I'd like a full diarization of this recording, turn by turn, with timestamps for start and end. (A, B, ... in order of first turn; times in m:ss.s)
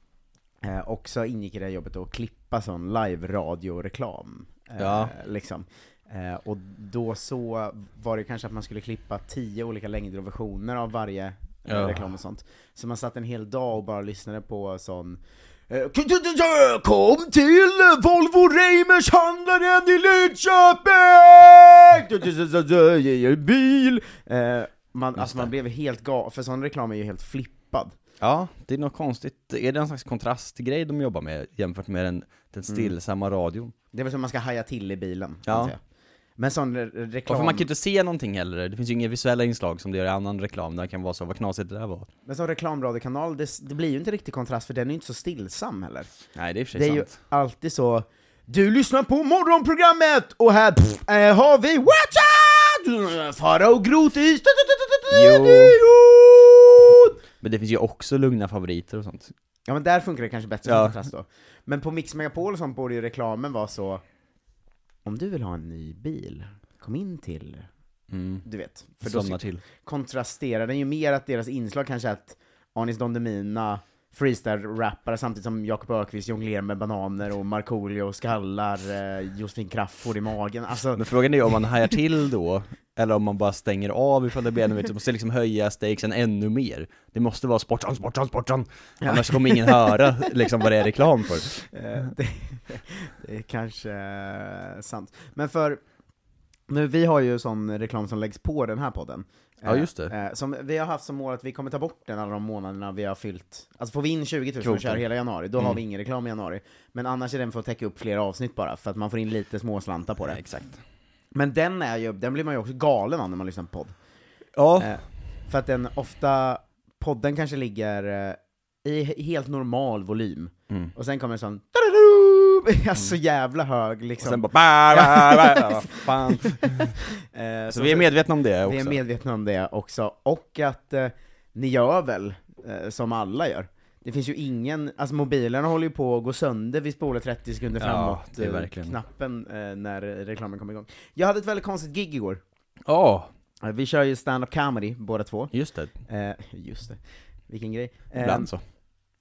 0:00.6-0:27.9 A
0:04.8-0:05.1 B
0:11.7-0:12.1 B
0:25.2-0:25.5 B
0:28.2-0:33.7 B
0:32.7-0:32.9 A
0:33.9-0:35.8 A
0:35.4-0:35.7 B
0:36.4-0:37.7 A
0:37.3-0:42.1 B
0:42.2-0:46.1 A
0:46.3-0:47.1 B
0:46.7-0:57.1 A
0:55.1-0:55.8 B
0:57.4-0:59.3 B
0:59.7-1:04.0 A
1:00.6-1:01.0 B
1:05.0-1:07.7 A
1:08.1-1:08.4 B
1:08.4-1:21.6 A
1:09.0-1:09.6 B
1:20.9-1:31.6 B
1:29.0-1:30.0 A
1:31.7-1:35.8 A
1:36.7-1:50.4 A
1:39.6-1:40.1 B
1:44.6-1:45.0 B
1:50.2-1:50.8 B
1:51.3-1:54.0 A
1:54.6-1:54.9 B
1:54.8-2:22.4 A
2:04.2-2:06.9 B
2:07.7-2:09.0 B
2:17.8-2:19.0 B
2:22.8-2:23.3 B
2:23.6-2:25.5 A
2:25.5-2:25.9 B
2:26.0-2:28.5 A
2:28.2-2:28.6 B